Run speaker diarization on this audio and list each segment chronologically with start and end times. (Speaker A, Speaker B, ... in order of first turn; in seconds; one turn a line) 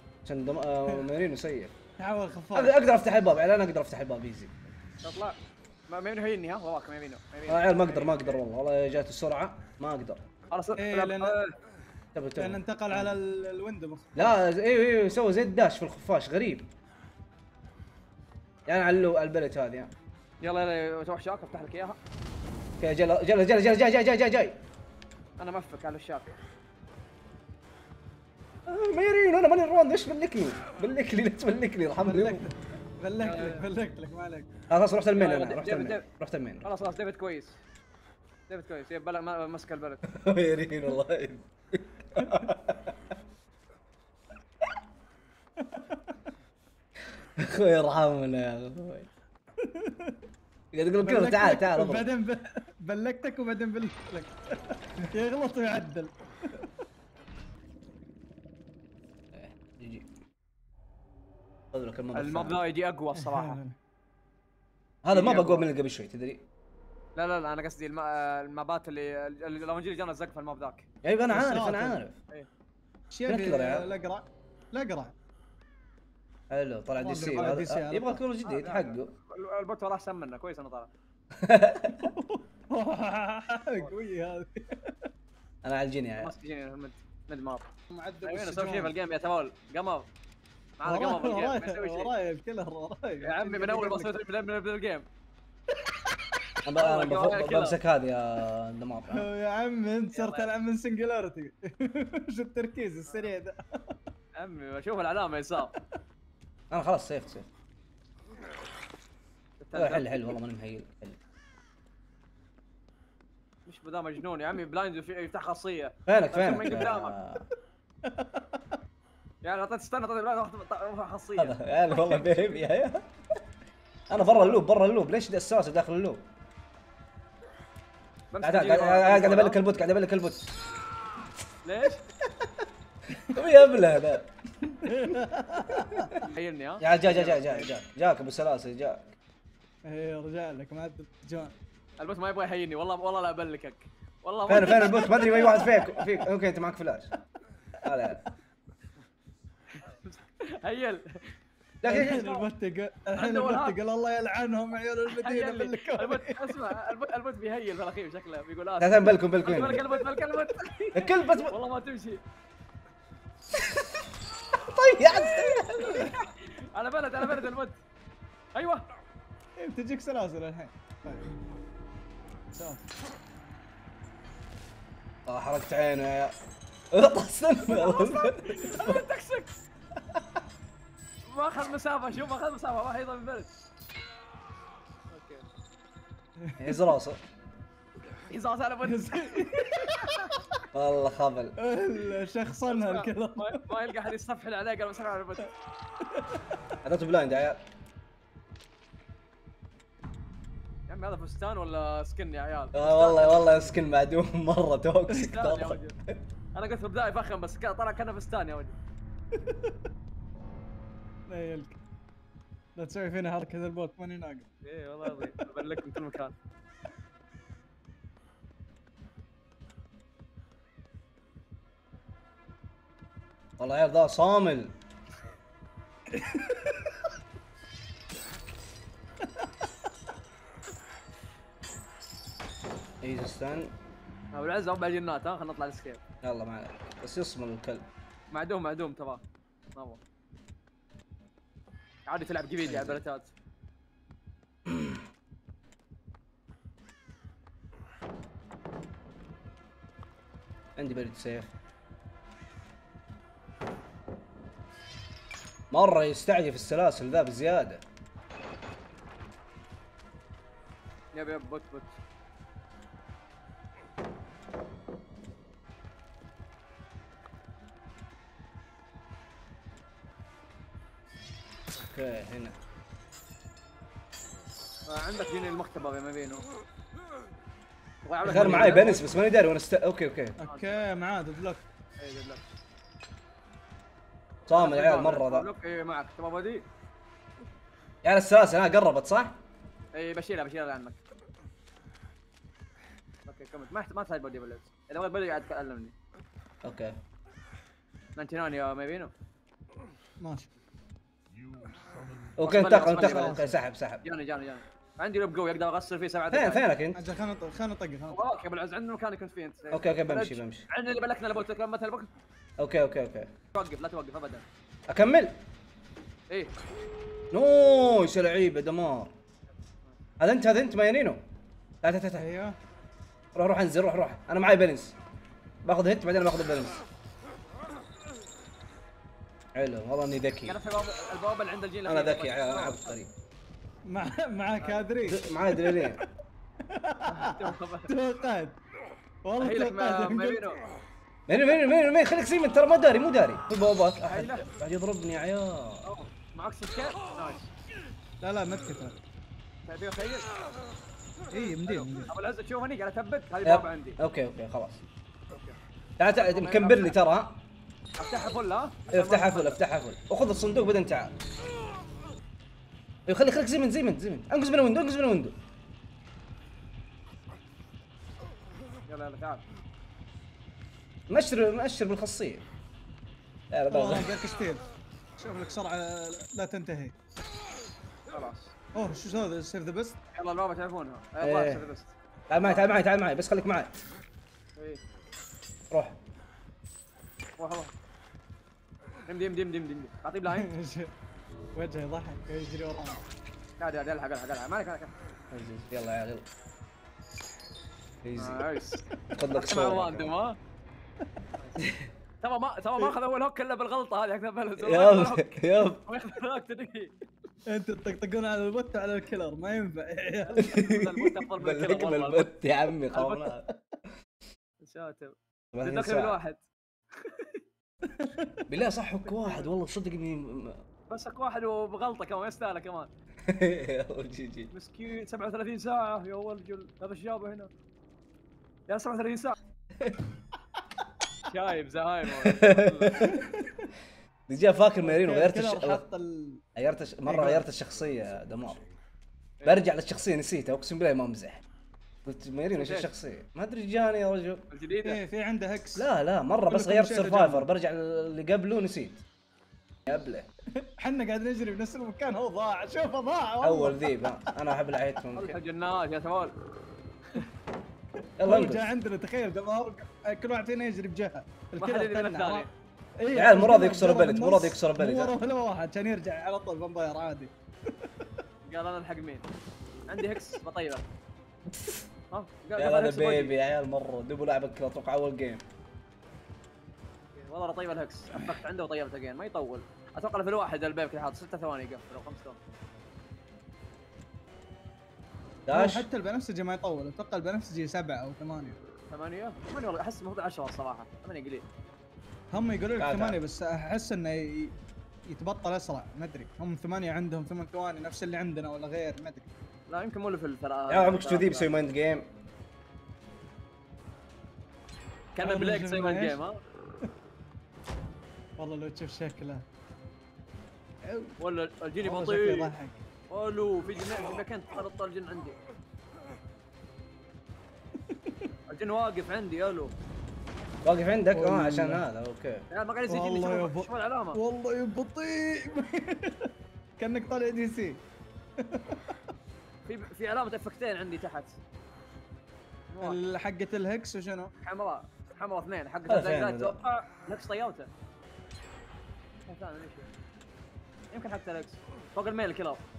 Speaker A: 0.2-1.7
Speaker B: 2.0-2.8
Speaker A: 2.5-4.5
Speaker C: 5.0-8.4
Speaker A: 7.5-10.2
Speaker C: 10.5-11.5
Speaker B: 10.8-11.4
Speaker A: 12.1-13.1
Speaker B: 12.4-14.4
Speaker A: 14.2-16.7
Speaker A: 18.6-19.9
Speaker C: 20.4-22.0
Speaker A: 22.8-24.6
Speaker C: 25.4-26.3
Speaker A: 28.7-32.4
Speaker B: 32.0-34.5
Speaker C: 33.2-33.6
Speaker A: 34.7-36.7
Speaker C: 35.1-36.0
Speaker C: 36.6-37.6
Speaker C: 38.5-40.0
Speaker A: 40.0-43.0
Speaker B: 42.2-42.5
Speaker B: 45.6-46.1
Speaker A: 47.4-49.1
Speaker B: 49.6-50.2
Speaker A: 50.7-52.1
Speaker B: 51.0-56.6
Speaker A: 59.3-60.1
Speaker A: 61.7-62.6
Speaker C: 62.1-63.6
Speaker B: 63.1-63.8
Speaker A: 65.0-66.4
Speaker C: 65.1-65.7
Speaker C: 67.2-70.9
Speaker A: 71.0-72.2
Speaker B: 71.3-72.0
Speaker B: 73.1-75.1
Speaker A: 73.2-73.9
Speaker A: 76.5-79.1
Speaker B: 77.0-78.2
Speaker C: 78.4-80.9
Speaker A: 81.3-82.1
Speaker B: 82.0-85.1
Speaker A: 85.6-86.3
Speaker C: 86.2-87.7
Speaker B: 87.9-88.9
Speaker C: 88.2-90.1
Speaker C: 90.8-92.1
Speaker B: 90.8-94.1
Speaker C: 93.2-95.1
Speaker A: 96.6-99.3
Speaker C: 96.8-97.8
Speaker B: 99.1-104.0
Speaker C: 100.1-100.5
Speaker C: 104.4-105.7
Speaker A: 106.7-107.5
Speaker C: 109.6-110.3
Speaker A: 109.8-111.2
Speaker C: 113.7-117.2
Speaker A: 116.0-117.4
Speaker B: 118.0-118.8
Speaker C: 119.4-122.4
Speaker A: 121.4-123.0
Speaker A: 124.1-126.2
Speaker C: 124.3-124.6
Speaker C: 128.3-129.6
Speaker A: 128.4-130.5
Speaker C: 131.6-132.0
Speaker A: 133.2-135.1
Speaker B: 134.8-136.1
Speaker A: 135.9-136.2
Speaker C: 136.2-137.7
Speaker A: 136.8-139.1
Speaker B: 139.8-141.6
Speaker C: 142.0-145.8
Speaker A: 144.5-147.1
Speaker B: 145.4-146.0
Speaker A: 147.8-148.2
Speaker C: 149.7-151.3
Speaker A: 151.8-152.3
Speaker B: 151.8-156.5
Speaker C: 151.9-152.4
Speaker C: 153.1-153.8
Speaker C: 155.1-162.2
Speaker A: 158.8-160.0
Speaker A: 160.9-161.5
Speaker A: 163.6-164.0
Speaker A: 164.6-166.1
Speaker C: 165.2-167.8
Speaker C: 168.5-168.8
Speaker B: 169.6-171.3
Speaker B: 172.5-172.9
Speaker A: 175.3-176.3
Speaker A: 176.9-179.1
Speaker C: 177.6-179.5
Speaker C: 181.2-183.5
Speaker C: 185.1-185.5
Speaker B: 186.4-186.9
Speaker A: 186.6-187.2
Speaker C: 188.3-190.4
Speaker B: 188.8-190.3
Speaker A: 190.7-191.6
Speaker B: 191.6-193.7
Speaker C: 192.7-195.5
Speaker A: 196.8-197.6
Speaker C: 200.9-203.7
Speaker A: 202.7-206.2
Speaker C: 205.1-206.0
Speaker C: 206.5-208.8
Speaker B: 209.4-209.7
Speaker B: 211.3-211.8
Speaker B: 212.8-214.5
Speaker C: 214.6-216.3
Speaker B: 215.1-215.5
Speaker A: 223.6-224.7
Speaker B: 226.1-226.8
Speaker A: 233.0-233.7
Speaker C: 234.3-236.0
Speaker A: 236.2-237.8
Speaker C: 238.3-239.2
Speaker C: 239.7-240.0
Speaker C: 242.1-243.3
Speaker A: 242.7-242.9
Speaker A: 244.7-245.0
Speaker A: 250.8-251.5
Speaker A: 255.7-257.8
Speaker C: 261.1-262.0
Speaker A: 271.9-272.6
Speaker C: 274.9-276.4
Speaker C: 278.0-279.2
Speaker A: 278.2-280.4
Speaker B: 278.3-279.0
Speaker B: 280.4-281.6
Speaker C: 280.4-280.7
Speaker C: 282.0-282.4
Speaker A: 284.5-285.5
Speaker C: 284.5-286.6
Speaker A: 288.0-289.3
Speaker C: 289.9-291.0
Speaker C: 293.2-295.9
Speaker A: 296.6-296.9
Speaker C: 298.1-299.1
Speaker B: 300.2-300.5
Speaker A: 302.4-304.0
Speaker C: 302.4-303.4
Speaker B: 303.0-303.6
Speaker C: 304.0-306.6
Speaker A: 306.3-307.0
Speaker B: 306.9-308.2
Speaker C: 308.1-312.1
Speaker A: 309.7-310.6
Speaker A: 312.6-313.3
Speaker C: 313.5-314.4
Speaker A: 314.9-315.3
Speaker A: 317.3-319.1
Speaker A: 320.2-321.2
Speaker A: 321.8-322.3
Speaker B: 322.1-322.6
Speaker A: 323.3-324.9
Speaker A: 325.6-326.8
Speaker A: 329.5-330.6
Speaker C: 330.4-332.9
Speaker A: 331.9-333.1
Speaker B: 333.9-336.1
Speaker A: 335.0-336.0
Speaker B: 336.6-338.6
Speaker C: 337.1-337.9
Speaker B: 339.2-340.4
Speaker C: 339.4-340.6
Speaker A: 341.3-345.9
Speaker C: 344.1-344.5
Speaker C: 345.8-347.5
Speaker B: 348.2-349.0
Speaker C: 349.6-350.3
Speaker B: 351.3-352.1
Speaker C: 351.6-354.0
Speaker A: 353.4-354.8
Speaker A: 356.0-357.4
Speaker C: 356.1-356.9
Speaker C: 358.0-359.6
Speaker A: 358.9-361.1
Speaker A: 363.1-365.3
Speaker C: 368.9-369.4
Speaker A: 371.1-372.4
Speaker A: 373.5-374.1
Speaker B: 373.7-374.6
Speaker B: 375.2-376.9
Speaker C: 378.1-378.5
Speaker B: 378.7-380.0
Speaker C: 380.1-382.8
Speaker A: 381.2-381.6
Speaker A: 382.3-383.7
Speaker C: 384.6-384.8
Speaker A: 385.7-386.0
Speaker C: 387.4-387.7
Speaker C: 389.1-390.5
Speaker B: 390.3-390.9
Speaker B: 391.5-393.0
Speaker C: 393.6-394.9
Speaker A: 395.3-396.2
Speaker A: 398.0-398.6
Speaker C: 398.1-400.4
Speaker A: 399.1-400.1
Speaker C: 401.4-401.7
Speaker A: 401.6-401.9
Speaker C: 402.2-406.9
Speaker A: 404.6-405.8
Speaker B: 407.4-410.4
Speaker C: 410.2-412.3
Speaker A: 410.4-413.6
Speaker C: 412.9-413.3
Speaker C: 414.6-417.4
Speaker A: 415.5-416.2
Speaker B: 417.8-418.4
Speaker A: 418.5-420.6
Speaker C: 419.1-419.5
Speaker C: 420.9-422.9
Speaker A: 423.2-424.5
Speaker C: 424.5-427.5
Speaker C: 428.7-429.4
Speaker C: 431.2-433.2
Speaker A: 432.2-433.2
Speaker B: 433.1-433.6
Speaker A: 434.3-435.8
Speaker B: 434.8-436.4
Speaker A: 436.6-438.6
Speaker B: 437.1-437.5
Speaker A: 439.4-441.4
Speaker A: 442.0-444.4
Speaker C: 442.5-442.9
Speaker C: 444.5-445.0
Speaker B: 444.8-445.9
Speaker A: 445.8-449.0
Speaker B: 446.5-447.5
Speaker A: 449.9-450.3
Speaker B: 450.5-454.3
Speaker A: 453.4-455.4
Speaker C: 455.1-456.3
Speaker A: 458.2-458.7
Speaker B: 458.2-462.5
Speaker C: 461.6-462.5
Speaker B: 463.0-468.2
Speaker A: 463.1-465.1
Speaker C: 468.5-469.2
Speaker C: 469.9-470.8
Speaker A: 471.5-471.8
Speaker C: 472.1-473.3
Speaker A: 472.6-475.4
Speaker C: 477.1-482.4
Speaker A: 485.5-485.9
Speaker B: 485.5-488.6
Speaker C: 488.9-491.4
Speaker B: 492.3-494.5
Speaker A: 492.8-493.2
Speaker B: 495.1-499.3
Speaker C: 499.7-501.5
Speaker A: 500.7-502.1
Speaker C: 505.1-506.4
Speaker B: 505.2-506.2
Speaker B: 508.4-509.4
Speaker B: 510.8-511.2
Speaker C: 511.2-512.5
Speaker B: 511.8-512.8
Speaker C: 513.1-515.4
Speaker B: 517.8-518.3
Speaker C: 518.5-519.7
Speaker A: 520.6-522.5
Speaker B: 521.1-521.8
Speaker C: 522.5-524.2
Speaker B: 522.9-527.8
Speaker B: 528.4-529.0
Speaker C: 529.6-531.4
Speaker C: 532.7-533.0
Speaker B: 532.8-534.3
Speaker C: 534.4-537.7
Speaker A: 535.9-536.6
Speaker C: 539.3-539.9
Speaker C: 540.9-542.6